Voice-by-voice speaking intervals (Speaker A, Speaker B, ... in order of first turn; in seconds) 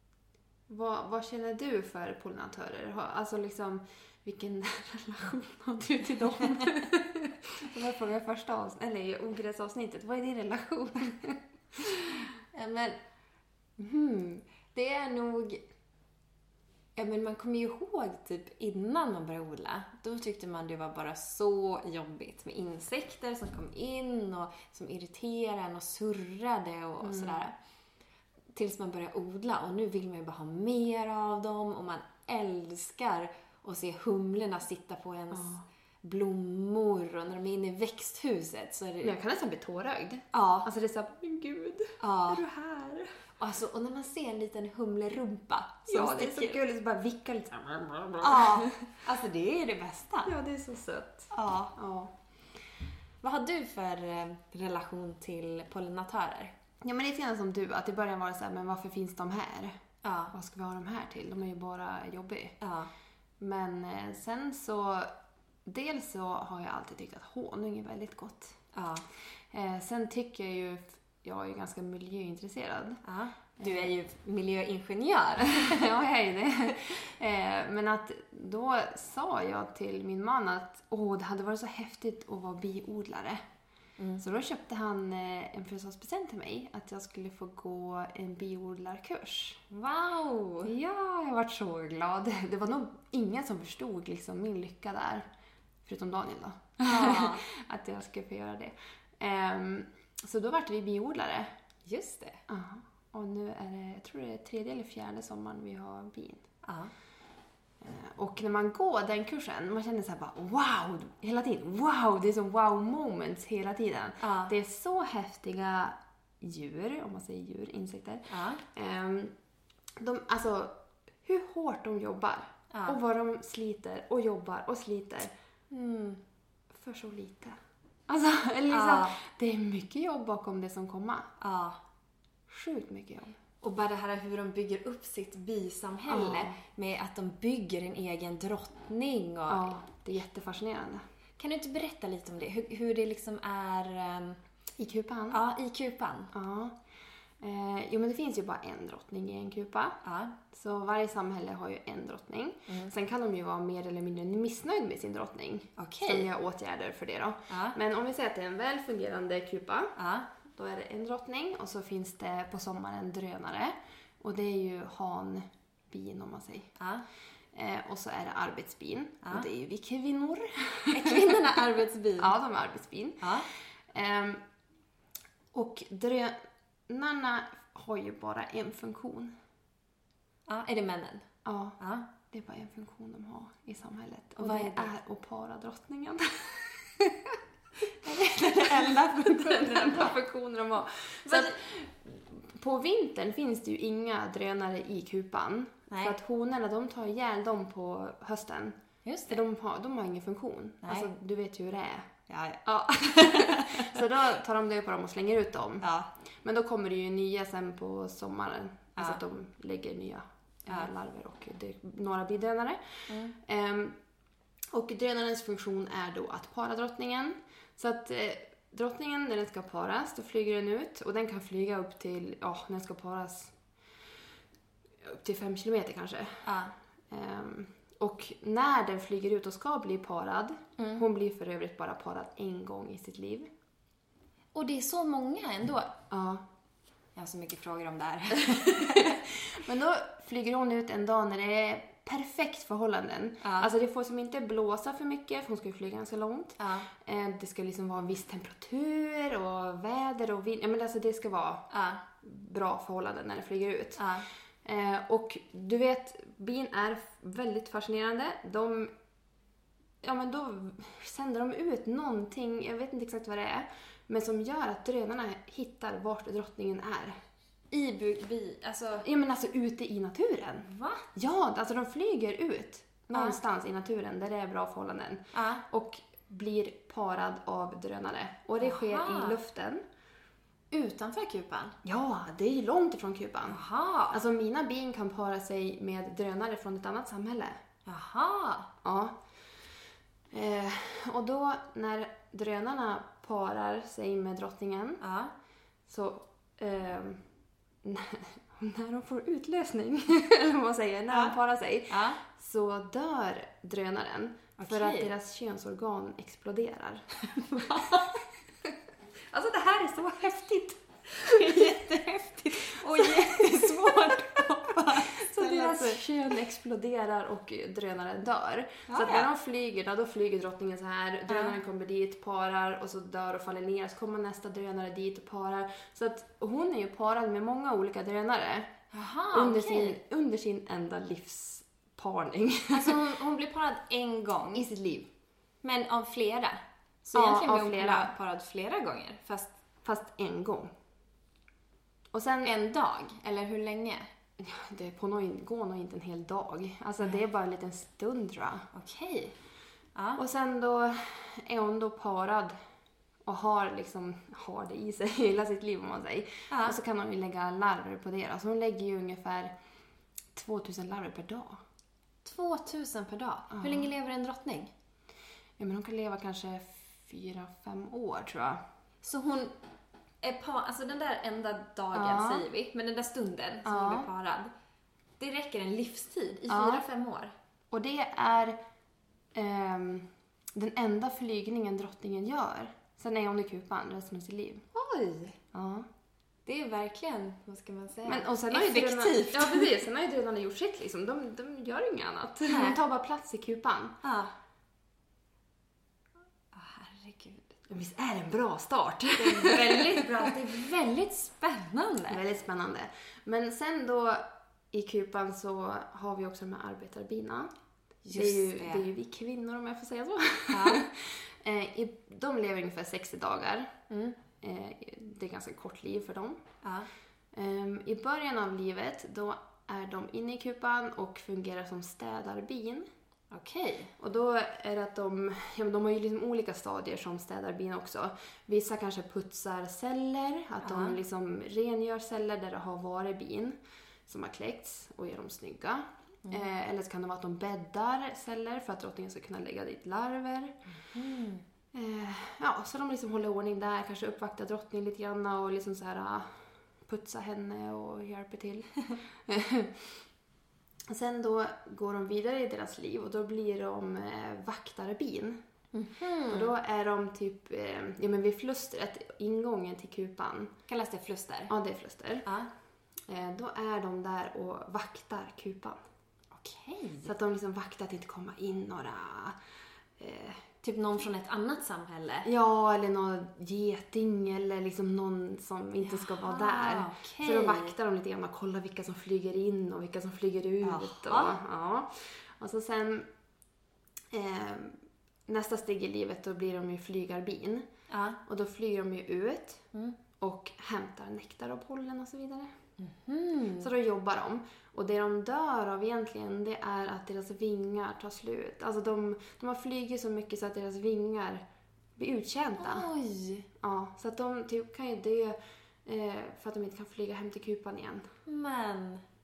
Speaker A: 0.7-12.2, 27.0-27.4, 35.3-35.6, 39.0-43.2, 45.9-48.8, 50.2-52.1, 56.8-59.7, 60.3-62.6, 63.4-65.1, 65.7-68.6, 69.5-73.0, 73.6-73.9, 75.5-83.4, 84.2-89.6, 90.6-95.2, 95.8-101.5, 102.5-106.5, 107.8-119.3, 120.0-125.3, 126.7-127.6, 128.1-131.3, 132.5-133.4, 136.1-136.6, 139.5-141.0, 144.8-145.4, 146.3-146.7, 147.4-159.9, 160.5-166.7, 167.5-171.5, 172.2-174.4, 175.5-176.3, 176.9-179.3, 181.4-187.4, 188.1-198.8, 199.3-202.1, 202.6-205.9, 206.4-214.0, 214.7-223.5, 225.0-226.5, 227.1-233.5, 236.1-236.4, 238.6-251.7, 252.2-258.9, 260.0-267.2, 269.0-279.8, 281.8-287.6, 288.8-289.1, 290.3-295.0, 295.9-297.2, 297.8-308.1, 309.3-311.9, 312.6-314.1, 314.9-328.8, 329.3-333.1, 334.5-335.1, 337.1-338.1, 339.8-340.7, 342.1-342.5, 344.4-348.7, 350.1-352.5, 353.2-359.5, 360.3-361.6, 363.5-363.9, 365.6-368.6, 371.9-372.5, 373.6-374.1, 376.5-376.8, 377.7-378.6, 379.3-384.6, 385.5-385.9, 388.1-394.0, 397.7-400.4, 402.1-407.5, 408.1-413.8, 414.4-416.4, 417.3-422.9, 424.0-440.6, 441.7-450.0, 450.9-455.4, 456.3-460.5, 461.5-462.3, 463.1-465.8, 467.0-469.4, 470.0-470.5, 472.2-483.1, 484.1-487.7, 488.2-492.5, 493.6-501.4, 502.0-502.9, 503.6-508.1
Speaker B: 12.5-13.0, 13.8-15.6, 16.9-27.5, 28.5-39.1, 40.3-40.7, 42.0-42.4, 43.4-46.6, 48.2-50.3, 51.3-51.7, 53.2-56.5, 60.0-60.3, 62.6-62.9, 68.7-69.0, 73.0-75.9, 84.0-84.2, 89.7-90.7, 96.8-97.4, 101.8-102.4, 106.6-106.9, 114.2-114.5, 118.3-118.6, 122.7-123.0, 125.7-126.2, 128.7-129.2, 131.4-131.8, 133.6-139.8, 141.4-144.4, 145.3-146.3, 150.0-150.3, 155.8-156.3, 157.5-157.8, 160.0-160.3, 166.8-167.0, 170.9-172.3, 173.2-173.5, 180.5-181.2, 181.8-182.1, 184.4-184.9, 188.0-190.1, 191.2-191.6, 195.9-196.1, 199.0-199.4, 200.8-201.1, 202.3-204.0, 205.8-206.1, 213.1-213.3, 226.4-226.7, 230.8-231.0, 234.5-235.9, 237.1-239.2, 243.4-243.7, 246.6-246.9, 251.7-252.0, 254.0-254.3, 267.7-269.1, 270.6-271.1, 275.3-275.6, 278.6-279.4, 280.7-281.8, 283.5-284.2, 287.9-288.7, 295.0-295.3, 301.9-302.2, 304.6-305.1, 307.3-308.2, 311.2-316.0, 318.9-319.3, 321.3-321.6, 328.9-330.0, 332.7-334.6, 335.6-339.5, 342.4-344.1, 348.7-349.3, 349.9-350.2, 356.5-356.8, 362.2-364.7, 369.0-369.5, 370.2-374.5, 375.2-377.3, 384.7-385.4, 386.4-389.8, 392.5-392.8, 394.0-394.3, 396.5-397.6, 399.1-402.2, 408.0-408.8, 410.5-410.9, 413.9-414.2, 416.6-416.9, 423.3-423.9, 430.6-431.0, 440.7-441.4, 455.7-456.5, 460.7-461.5, 462.2-462.5, 466.3-467.1, 470.6-472.3, 475.8-477.7, 480.6-481.4, 487.9-488.2, 489.7-490.0, 492.8-493.7, 502.6-503.5, 508.3-509.0